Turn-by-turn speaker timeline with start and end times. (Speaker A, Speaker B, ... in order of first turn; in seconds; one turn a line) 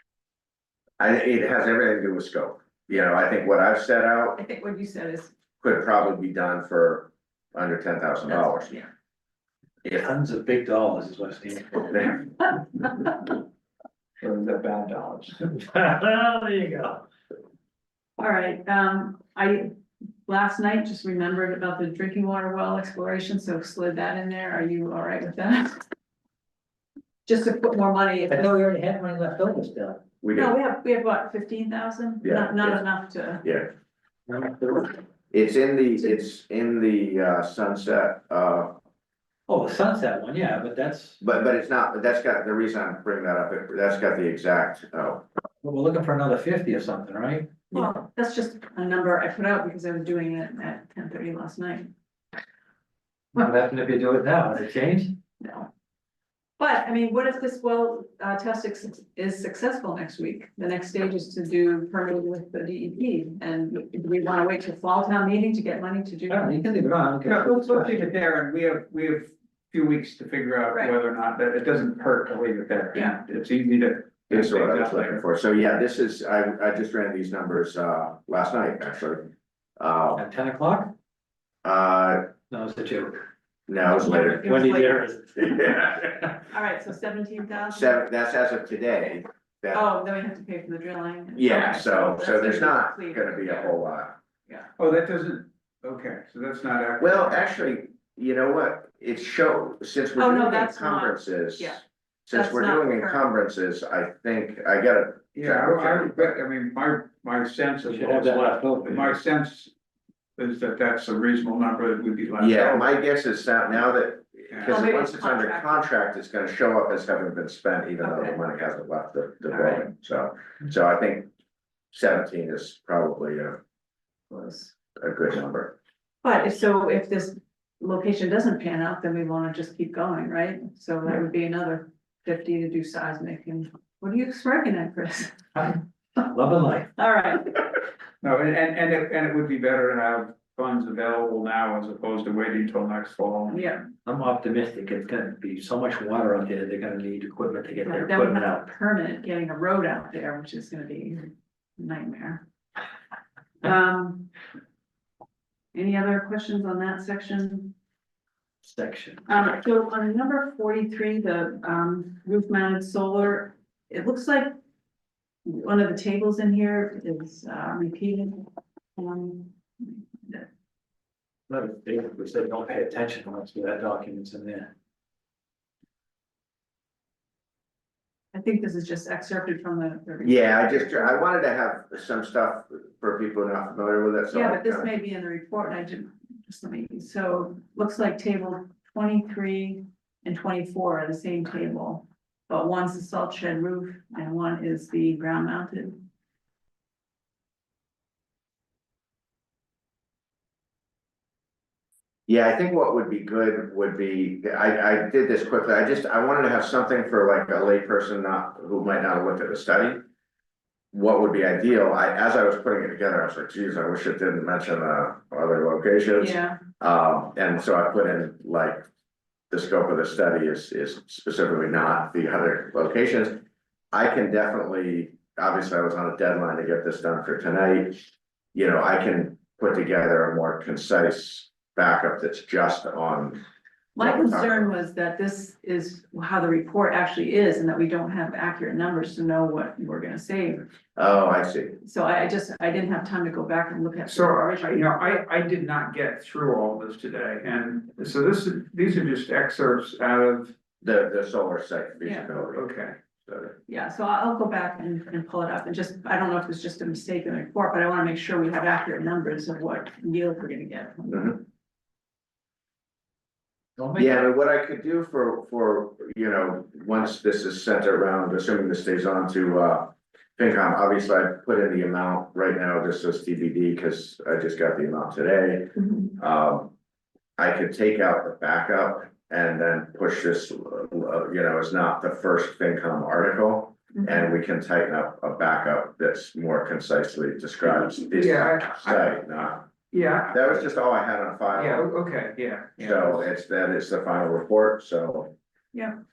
Speaker A: 1.0-4.4
Speaker B: 4.4-5.3
Speaker A: 5.6-8.8
Speaker B: 8.3-8.9
Speaker C: 9.9-12.1
Speaker D: 14.2-15.4
Speaker C: 15.5-17.0
Speaker B: 18.2-19.7
Speaker B: 20.2-25.9
Speaker B: 27.3-28.5
Speaker C: 28.3-30.0
Speaker A: 30.2-30.5
Speaker B: 30.3-33.5
Speaker A: 32.2-32.8
Speaker C: 34.3-35.0
Speaker A: 35.3-38.7
Speaker C: 39.5-41.2
Speaker A: 41.2-45.2
Speaker C: 45.6-47.9
Speaker B: 47.7-51.9
Speaker C: 53.4-55.1
Speaker B: 55.4-55.7
Speaker B: 56.6-66.7
Speaker C: 66.3-68.0
Speaker D: 67.2-75.2
Speaker B: 73.0-73.2
Speaker A: 74.3-80.2
Speaker C: 80.2-80.9
Speaker A: 81.6-82.3
Speaker C: 82.5-83.2
Speaker A: 83.7-84.5
Speaker B: 83.8-85.0
Speaker C: 84.1-86.1
Speaker A: 85.4-86.1
Speaker B: 86.5-88.0
Speaker A: 87.7-89.9
Speaker B: 89.7-93.8
Speaker A: 91.3-94.2
Speaker D: 94.8-97.5
Speaker A: 97.0-106.3
Speaker B: 100.2-101.8
Speaker B: 102.3-103.3
Speaker D: 105.3-109.7
Speaker C: 107.8-109.2
Speaker D: 110.4-112.9
Speaker A: 112.4-121.3
Speaker B: 114.7-115.9
Speaker B: 118.0-118.4
Speaker B: 119.5-119.8
Speaker A: 121.9-123.6
Speaker B: 124.3-124.7
Speaker A: 125.0-125.8
Speaker B: 126.2-135.8
Speaker C: 136.2-136.9
Speaker B: 137.0-137.7
Speaker D: 138.2-143.6
Speaker B: 143.5-143.9
Speaker C: 144.1-148.7
Speaker B: 147.8-152.4
Speaker B: 153.6-154.3
Speaker B: 155.7-157.7
Speaker C: 158.7-159.2
Speaker B: 159.3-164.6
Speaker B: 165.4-170.5
Speaker C: 171.5-174.7
Speaker B: 178.3-181.2
Speaker A: 180.2-184.9
Speaker B: 184.3-196.0
Speaker A: 202.3-210.0
Speaker A: 210.9-218.9
Speaker B: 216.2-216.6
Speaker A: 219.5-223.4
Speaker A: 223.9-228.0
Speaker A: 228.5-233.4
Speaker B: 234.0-240.7
Speaker A: 234.0-234.7
Speaker A: 241.0-241.8
Speaker B: 241.8-244.9
Speaker D: 244.1-250.5
Speaker A: 250.8-252.7
Speaker B: 252.0-252.3
Speaker D: 252.5-253.0
Speaker A: 253.2-253.6
Speaker B: 253.7-261.4
Speaker A: 261.1-261.4
Speaker C: 263.8-264.2
Speaker A: 264.0-276.7
Speaker B: 275.8-276.1
Speaker A: 277.4-289.7
Speaker B: 284.0-284.3
Speaker D: 287.7-289.2
Speaker D: 289.9-290.6
Speaker A: 290.3-291.9
Speaker D: 291.6-293.3
Speaker A: 292.8-295.3